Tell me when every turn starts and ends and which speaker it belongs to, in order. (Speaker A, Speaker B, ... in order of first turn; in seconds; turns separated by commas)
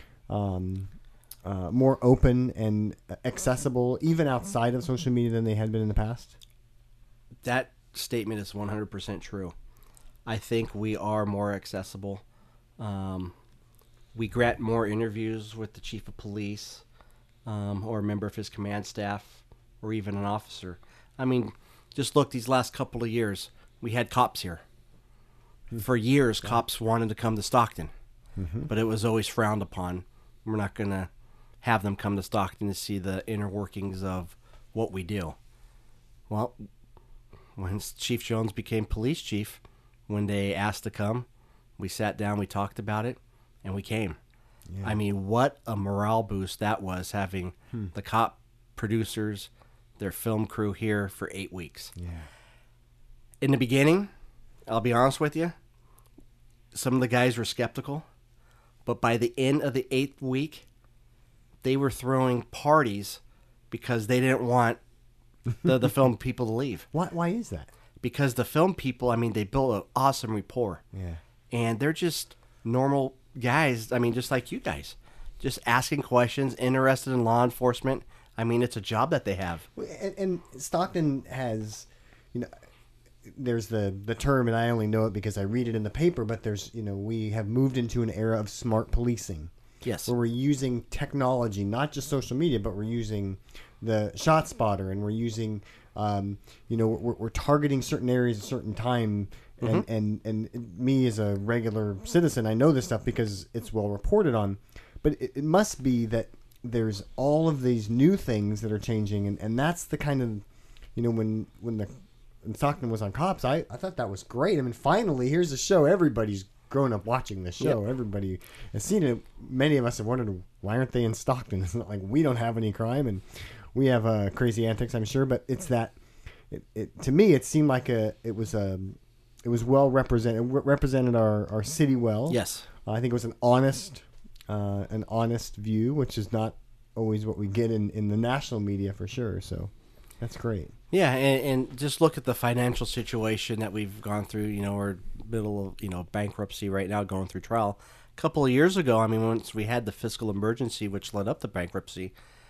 Speaker A: 0.3-0.9, Speaker A: 1.4-6.3, Speaker B: 7.4-9.5, Speaker B: 10.2-12.2, Speaker B: 12.8-13.3, Speaker B: 14.1-16.8, Speaker B: 17.4-24.6, Speaker B: 25.8-27.9, Speaker A: 28.4-28.7, Speaker B: 28.7-31.1, Speaker B: 31.6-35.4, Speaker B: 36.3-36.6, Speaker B: 37.5-41.3, Speaker B: 41.8-44.2, Speaker A: 44.7-45.0, Speaker B: 44.8-51.9, Speaker A: 52.0-52.3, Speaker B: 53.4-54.1, Speaker B: 54.7-55.5, Speaker B: 56.7-58.0, Speaker B: 58.9-60.6, Speaker B: 61.6-63.2, Speaker B: 63.7-64.8, Speaker B: 65.6-66.9, Speaker A: 66.9-67.7, Speaker B: 68.0-70.8, Speaker A: 70.9-71.2, Speaker B: 71.5-79.7, Speaker A: 79.8-82.5, Speaker A: 83.2-89.5, Speaker B: 89.8-90.1, Speaker A: 90.0-111.9, Speaker A: 112.4-126.0, Speaker A: 126.5-140.7, Speaker B: 132.3-132.7, Speaker B: 140.9-152.1